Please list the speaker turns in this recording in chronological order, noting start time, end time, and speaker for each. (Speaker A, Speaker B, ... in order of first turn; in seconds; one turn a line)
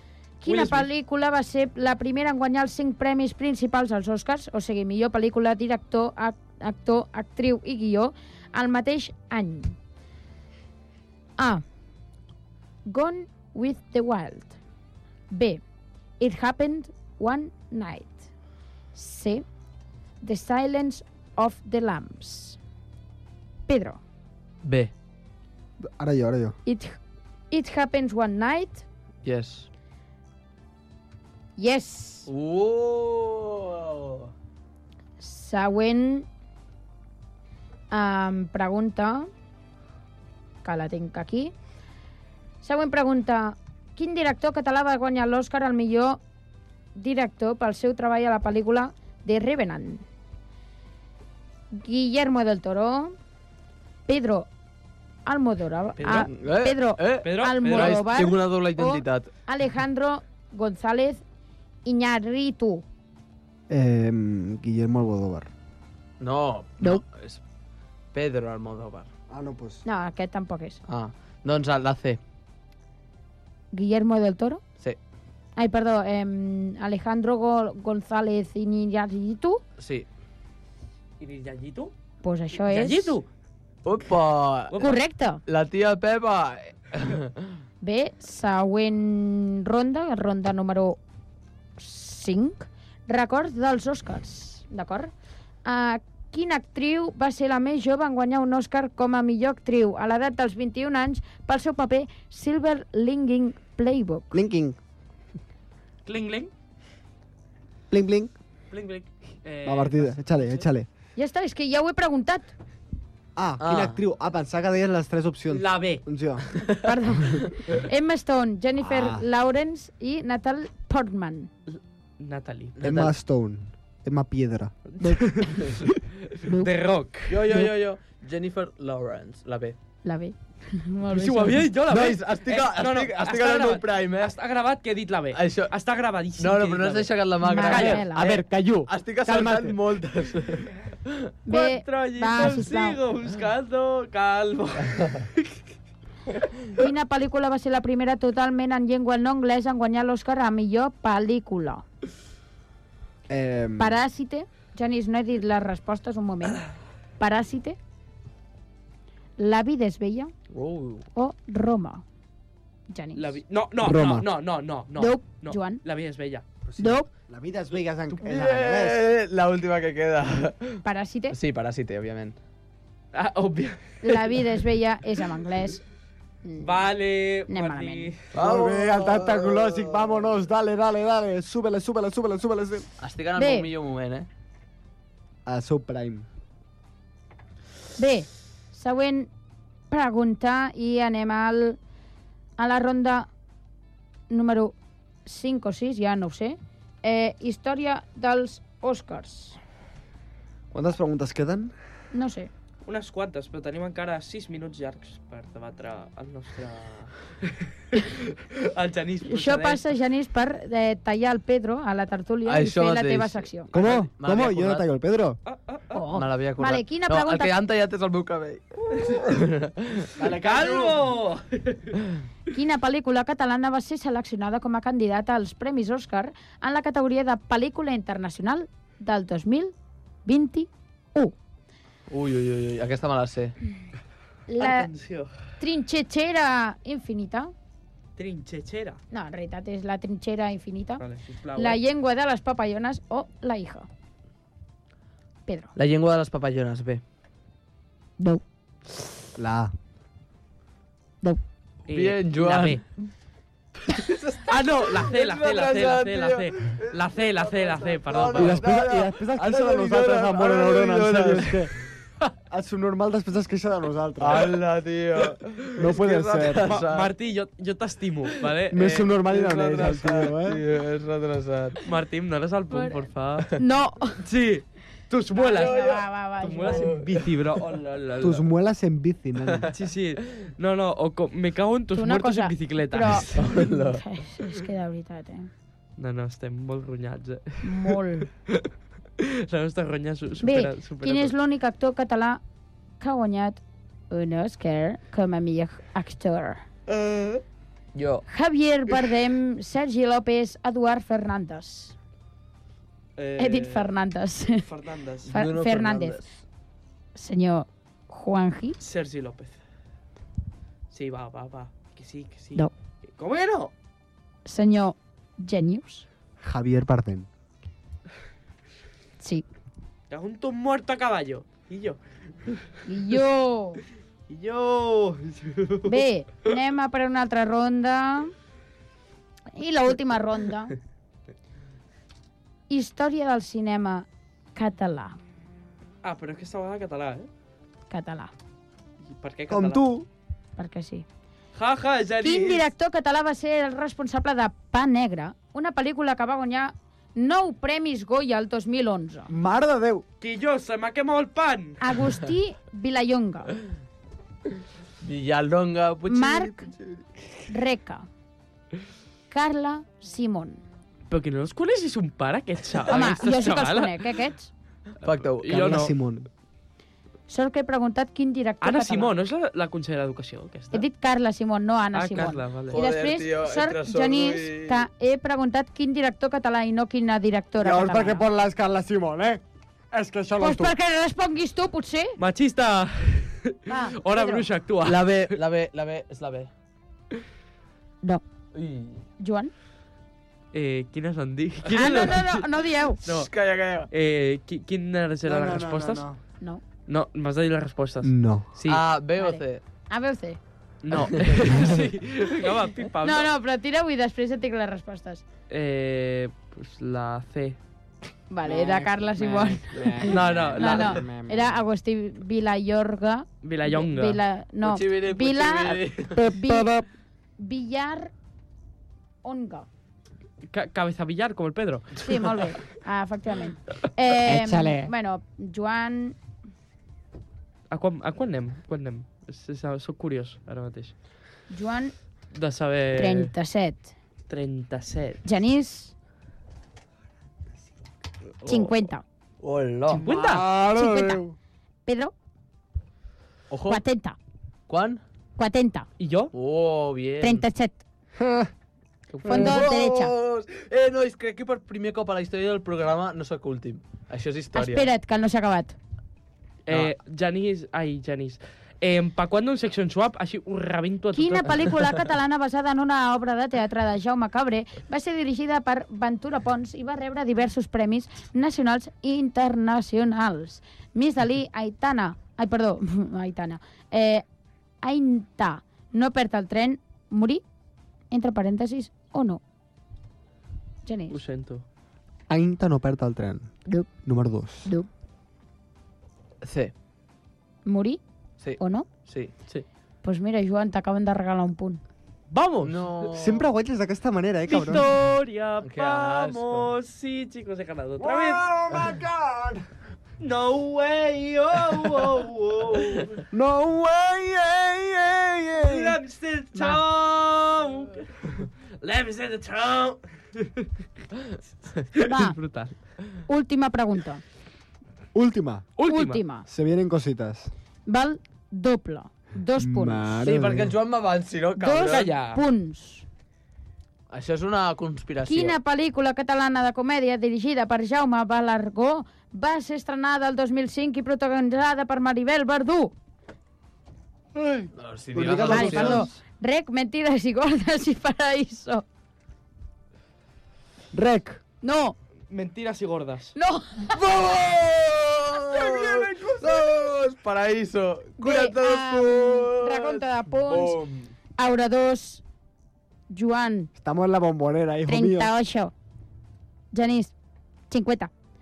Speaker A: 0.4-9.8
Speaker B: 0.5-0.9
Speaker A: 11.4-11.6
Speaker A: 12.9-14.6
Speaker A: 15.3-15.6
Speaker A: 16.2-18.3
Speaker A: 18.9-19.4
Speaker A: 20.2-22.6
Speaker A: 23.7-24.0
Speaker C: 24.6-24.9
Speaker D: 25.8-26.6
Speaker A: 26.7-27.0
Speaker A: 27.5-28.9
Speaker C: 29.2-29.7
Speaker A: 31.6-32.3
Speaker C: 32.3-34.3
Speaker A: 35.2-36.3
Speaker A: 37.9-39.3
Speaker A: 40.6-41.5
Speaker A: 42.6-46.2
Speaker A: 47.0-50.0
Speaker A: 51.7-53.2
Speaker A: 54.1-54.5
Speaker A: 55.3-61.2
Speaker C: 56.0-59.3
Speaker B: 57.2-58.1
Speaker A: 61.9-62.9
Speaker D: 63.7-65.5
Speaker C: 66.2-67.4
Speaker C: 68.1-69.1
Speaker D: 69.3-69.8
Speaker A: 69.8-70.8
Speaker C: 70.9-72.2
Speaker A: 73.7-74.6
Speaker A: 75.6-79.6
Speaker C: 79.8-80.1
Speaker B: 81.2-81.9
Speaker A: 82.2-83.2
Speaker B: 82.6-83.3
Speaker C: 83.8-87.5
Speaker A: 84.8-85.4
Speaker A: 87.8-91.0
Speaker A: 91.8-95.1
Speaker A: 95.7-104.4
Speaker D: 104.3-104.8
Speaker B: 106.0-106.5
Speaker D: 107.9-108.3
Speaker B: 108.7-110.7
Speaker D: 109.6-110.9
Speaker A: 111.2-112.5
Speaker D: 113.4-116.5
Speaker C: 113.6-114.0
Speaker B: 115.5-116.0
Speaker A: 116.8-121.5
Speaker D: 118.8-119.2
Speaker B: 121.7-122.8
Speaker C: 122.8-123.1
Speaker D: 122.8-125.2
Speaker B: 124.9-125.7
Speaker B: 126.5-127.6
Speaker C: 127.3-129.8
Speaker A: 130.1-131.7
Speaker B: 131.1-138.5
Speaker C: 131.9-134.3
Speaker C: 135.3-135.7
Speaker C: 136.4-141.2
Speaker A: 137.4-138.3
Speaker D: 138.5-139.8
Speaker A: 141.5-143.0
Speaker B: 141.5-145.5
Speaker C: 145.0-145.2
Speaker A: 146.8-151.8
Speaker D: 153.3-154.0
Speaker A: 153.8-156.6
Speaker A: 157.2-157.8
Speaker A: 159.4-160.3
Speaker C: 160.5-161.1
Speaker A: 161.2-162.1
Speaker A: 162.9-163.4
Speaker B: 163.2-166.4
Speaker D: 163.8-164.3
Speaker A: 165.0-165.8
Speaker D: 166.7-169.1
Speaker A: 166.8-167.1
Speaker C: 168.2-172.4
Speaker A: 170.8-171.4
Speaker B: 173.1-174.0
Speaker A: 174.0-175.8
Speaker A: 176.4-176.9
Speaker B: 176.6-178.3
Speaker A: 177.5-178.1
Speaker C: 178.3-180.1
Speaker D: 178.3-182.9
Speaker C: 183.0-184.3
Speaker A: 183.4-183.7
Speaker D: 185.5-186.3
Speaker A: 188.0-189.3
Speaker A: 189.9-191.8
Speaker A: 192.6-193.3
Speaker A: 194.3-194.7
Speaker A: 195.2-199.6
Speaker D: 200.7-201.8
Speaker A: 202.1-202.5
Speaker B: 202.8-209.9
Speaker A: 209.3-213.7
Speaker C: 212.5-214.9
Speaker D: 213.7-215.4
Speaker B: 215.5-216.1
Speaker A: 215.9-217.5
Speaker C: 216.1-220.1
Speaker D: 220.2-221.1
Speaker B: 220.2-221.9
Speaker A: 222.5-229.7
Speaker A: 230.2-231.3
Speaker C: 232.1-233.6
Speaker A: 234.5-234.9
Speaker B: 234.6-235.3
Speaker A: 235.6-237.5
Speaker B: 238.2-239.0
Speaker A: 239.1-241.0
Speaker B: 241.0-241.8
Speaker A: 241.6-243.9
Speaker A: 245.5-245.7
Speaker C: 245.8-247.0
Speaker D: 249.4-249.7
Speaker B: 251.9-252.8
Speaker C: 251.9-252.8
Speaker C: 253.9-261.7
Speaker B: 254.5-258.7
Speaker D: 258.3-261.7
Speaker D: 262.5-264.6
Speaker C: 264.2-267.1
Speaker D: 265.8-266.7
Speaker B: 266.6-269.1
Speaker D: 268.7-270.6
Speaker C: 269.1-271.8
Speaker B: 271.9-273.5
Speaker A: 272.7-273.0
Speaker A: 273.6-274.2
Speaker B: 274.2-275.9
Speaker A: 275.3-276.9
Speaker C: 275.6-276.1
Speaker B: 276.4-278.5
Speaker C: 276.6-277.1
Speaker D: 278.2-279.7
Speaker B: 279.7-283.5
Speaker A: 282.0-285.5
Speaker C: 283.4-284.0
Speaker B: 286.0-288.7
Speaker A: 287.6-288.3
Speaker B: 289.2-291.3
Speaker A: 290.4-292.4
Speaker A: 293.0-296.6
Speaker C: 296.9-297.4
Speaker C: 297.9-298.2
Speaker A: 298.3-301.9
Speaker B: 303.2-303.9
Speaker A: 303.4-304.6
Speaker B: 304.6-305.3
Speaker C: 305.2-306.4
Speaker A: 305.3-306.2
Speaker A: 307.1-308.8
Speaker B: 308.8-309.6
Speaker B: 310.9-313.7
Speaker A: 314.5-316.1
Speaker D: 316.4-317.3
Speaker A: 319.2-319.4
Speaker B: 320.1-322.0
Speaker A: 322.9-323.8
Speaker B: 324.3-326.0
Speaker A: 325.9-328.3
Speaker A: 329.6-330.8
Speaker A: 332.7-335.2
Speaker B: 336.0-337.3
Speaker A: 337.9-338.3
Speaker B: 339.1-339.8
Speaker D: 339.5-340.1
Speaker A: 340.6-341.1
Speaker B: 341.6-342.7
Speaker A: 342.2-349.3
Speaker D: 349.3-350.1
Speaker B: 350.2-351.8
Speaker A: 351.8-353.5
Speaker C: 355.0-357.0
Speaker A: 356.1-356.7
Speaker A: 357.5-358.1
Speaker A: 359.3-360.6
Speaker B: 361.1-364.1
Speaker A: 362.9-364.5
Speaker C: 365.0-365.8
Speaker B: 365.4-365.9
Speaker D: 365.5-366.3
Speaker A: 367.3-369.1
Speaker B: 368.6-370.9
Speaker A: 370.7-378.3
Speaker B: 371.9-372.8
Speaker C: 372.7-374.9
Speaker D: 377.6-380.8
Speaker A: 380.4-382.2
Speaker B: 382.2-385.4
Speaker A: 383.7-384.5
Speaker C: 384.8-386.5
Speaker C: 388.5-389.1
Speaker A: 389.2-389.5
Speaker B: 390.5-392.4
Speaker C: 391.6-392.2
Speaker A: 391.8-393.0
Speaker B: 393.1-393.3
Speaker C: 393.1-393.9
Speaker B: 393.9-396.0
Speaker D: 395.2-396.2
Speaker B: 396.9-398.8
Speaker D: 398.0-398.5
Speaker C: 398.7-399.6
Speaker A: 399.2-400.4
Speaker B: 400.8-403.3
Speaker C: 400.9-401.8
Speaker A: 403.0-405.2
Speaker B: 405.5-407.6
Speaker A: 408.3-416.7
Speaker D: 408.4-411.6
Speaker B: 410.1-411.0
Speaker B: 413.4-414.2
Speaker C: 414.6-416.2
Speaker D: 416.4-416.9
Speaker A: 417.4-418.1
Speaker A: 419.2-419.7
Speaker B: 420.5-422.1
Speaker A: 422.0-426.2
Speaker D: 424.3-424.9
Speaker B: 427.7-430.9
Speaker A: 431.5-431.9
Speaker B: 432.3-433.3
Speaker A: 433.0-433.9
Speaker B: 434.3-435.2
Speaker A: 435.2-435.9
Speaker A: 438.5-439.0
Speaker C: 439.4-440.0
Speaker D: 439.9-441.4
Speaker B: 440.0-440.5
Speaker A: 440.6-441.2
Speaker A: 441.9-442.1
Speaker C: 443.5-443.8
Speaker A: 443.7-444.2
Speaker C: 444.7-445.0
Speaker A: 445.4-445.9
Speaker B: 446.0-446.3
Speaker C: 446.3-447.4
Speaker A: 447.2-447.8
Speaker D: 448.2-448.5
Speaker C: 449.1-454.9
Speaker A: 449.2-450.1
Speaker D: 449.3-449.7
Speaker A: 454.6-455.8
Speaker B: 456.7-461.7
Speaker A: 461.1-474.2
Speaker A: 474.8-477.4
Speaker A: 478.1-479.4
Speaker A: 480.9-481.2
Speaker B: 481.1-481.6
Speaker D: 482.3-484.7
Speaker C: 486.4-486.7
Speaker A: 487.6-488.0
Speaker C: 488.4-489.3
Speaker A: 488.6-488.9
Speaker A: 490.0-491.8
Speaker B: 492.3-493.1
Speaker C: 492.6-493.4
Speaker D: 493.1-494.9
Speaker B: 494.5-498.5
Speaker C: 495.6-496.7
Speaker D: 498.0-499.7
Speaker B: 500.2-503.2
Speaker D: 503.3-506.0
Speaker B: 505.6-510.7
Speaker A: 506.6-506.8
Speaker B: 511.9-512.8
Speaker A: 512.0-512.4
Speaker A: 513.3-514.2
Speaker D: 515.1-515.7
Speaker B: 515.8-516.2
Speaker A: 515.9-516.5
Speaker D: 516.5-517.5
Speaker A: 517.9-520.2
Speaker D: 519.6-520.8
Speaker C: 520.2-522.1
Speaker A: 521.6-523.0
Speaker B: 521.8-522.4
Speaker C: 524.1-525.6
Speaker A: 525.2-532.9
Speaker D: 534.4-536.2
Speaker C: 534.8-536.1
Speaker A: 535.4-538.9
Speaker D: 540.9-541.4
Speaker A: 541.6-542.0
Speaker B: 542.3-543.4
Speaker A: 543.4-544.0
Speaker C: 544.0-551.1
Speaker D: 545.5-546.9
Speaker A: 548.2-550.8
Speaker A: 551.4-552.2
Speaker A: 553.1-553.7
Speaker D: 553.8-555.3
Speaker A: 554.9-555.7
Speaker A: 556.7-557.1
Speaker A: 557.7-558.1